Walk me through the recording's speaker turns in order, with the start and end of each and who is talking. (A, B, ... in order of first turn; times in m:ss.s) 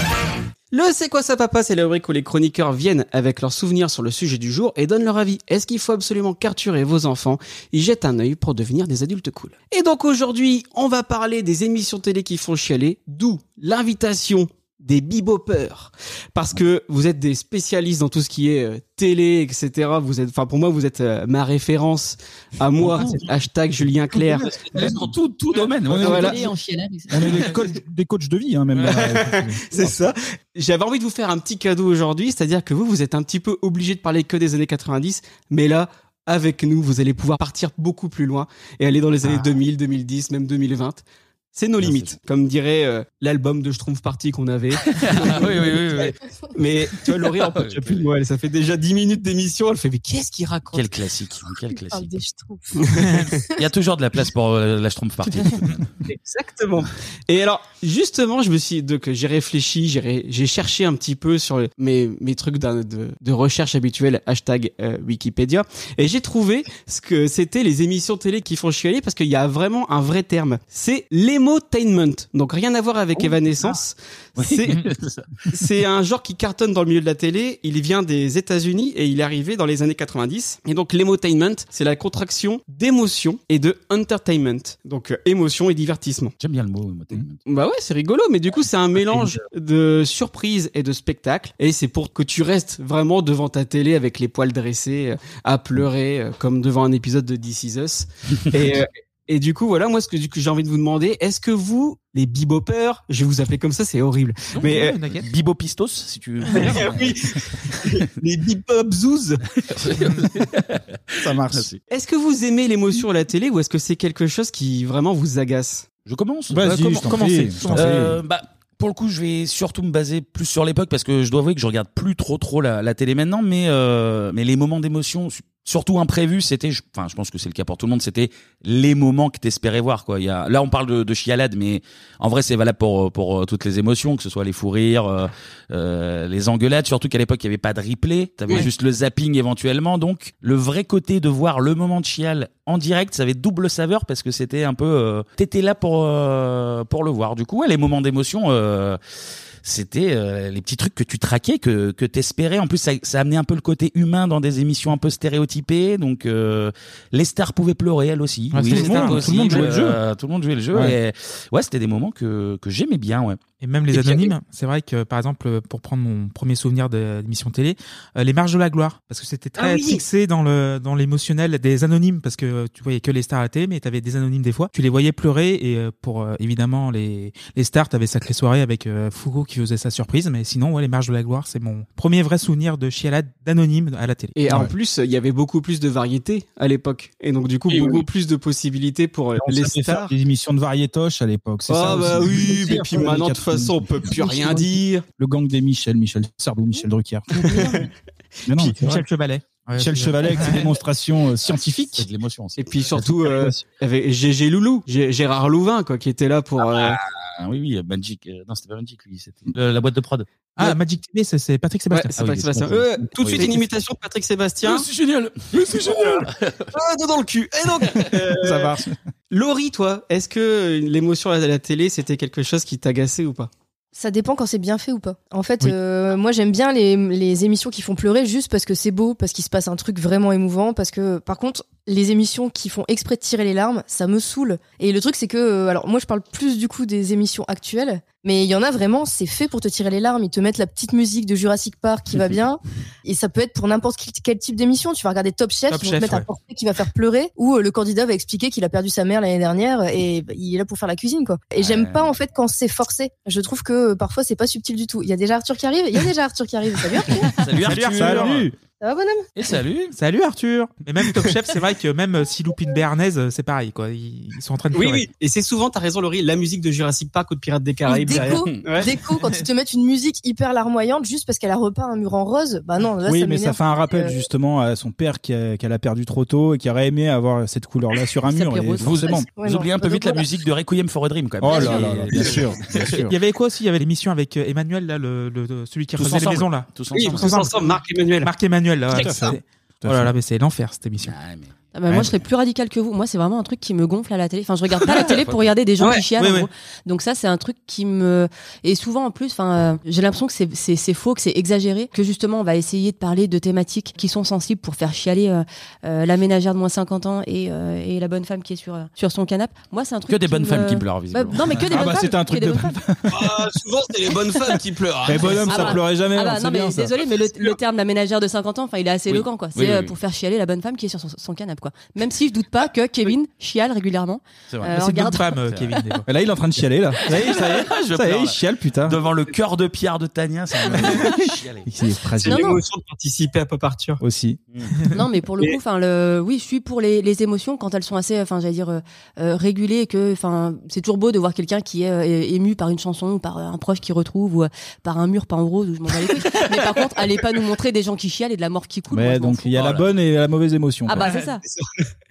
0:00.7-0:24.5 A
0:22.8-0:23.3 B
0:24.1-0:26.4 B
0:25.9-0:26.4 C
0:26.0-0:27.4 D
0:26.0-0:26.3 A
0:27.1-0:29.8 C
0:28.9-0:41.0 A
0:41.5-0:50.9 A
0:41.8-0:42.2 B
0:44.8-0:46.2 B
0:47.2-0:48.0 B
0:50.7-0:52.1 B
0:51.7-0:53.4 E
0:52.9-0:53.2 A
0:52.9-0:55.8 B
0:56.0-1:14.8 A
1:14.4-1:15.2 B
1:15.5-1:26.3 A
1:26.4-1:27.4 B
1:27.5-1:45.0 A
1:29.0-1:29.4 B
1:44.6-1:45.2 F
1:45.2-1:47.8 B
1:46.5-1:49.4 A
1:49.7-1:51.8 B
1:51.2-1:51.7 C
1:51.9-1:55.9 A
1:56.0-2:29.0 B
1:56.5-1:58.2 C
1:56.6-1:58.0 F
2:29.6-2:43.4 B
2:38.5-2:39.6 F
2:38.7-2:40.0 C
2:43.6-3:04.4 F
2:43.9-2:44.3 A
2:49.6-2:50.0 A
3:04.4-3:10.1 A
3:07.7-3:08.0 C
3:09.4-3:17.9 C
3:11.7-3:15.0 A
3:17.4-3:17.8 A
3:18.5-3:19.0 C
3:18.8-3:20.7 F
3:19.8-3:22.0 C
3:21.5-3:23.4 B
3:22.6-3:27.0 A
3:23.2-3:23.6 C
3:26.6-3:30.3 B
3:30.6-3:32.1 F
3:31.9-3:34.8 A
3:32.2-3:33.6 B
3:34.6-3:36.7 B
3:36.7-3:38.7 A
3:38.4-3:38.9 C
3:39.3-3:43.5 A
3:43.9-4:17.3 E
4:05.7-4:06.3 F
4:11.6-4:12.1 B
4:17.4-4:18.4 B
4:17.6-4:18.5 F
4:17.6-4:18.5 C
4:18.8-4:19.3 E
4:19.4-4:19.9 B
4:19.9-4:25.1 F
4:24.7-4:28.9 A
4:27.9-4:34.1 E
4:28.1-4:28.7 B
4:33.0-4:39.3 C
4:38.3-4:39.2 D
4:38.8-4:43.0 B
4:39.4-4:40.2 E
4:41.4-4:43.2 C
4:43.0-4:47.6 F
4:46.0-4:47.5 B
4:46.9-4:48.3 A
4:48.2-4:51.1 F
4:48.9-4:50.1 C
4:51.0-4:51.5 B
4:51.7-5:12.7 D
4:55.0-4:55.4 B
4:55.8-4:56.4 A
5:10.1-5:11.6 B
5:11.5-5:13.4 C
5:13.1-5:15.8 A
5:15.0-5:16.9 C
5:15.4-5:25.3 D
5:19.1-5:20.0 B
5:24.6-5:26.0 F
5:25.5-5:25.8 B
5:26.1-5:29.0 C
5:27.1-5:31.7 B
5:30.7-5:32.6 C
5:32.2-5:34.0 A
5:32.2-5:32.6 D
5:34.0-5:34.4 C
5:34.9-5:49.5 D
5:48.9-5:51.1 C
5:49.5-5:49.9 B
5:50.9-5:51.4 D
5:51.4-5:51.8 A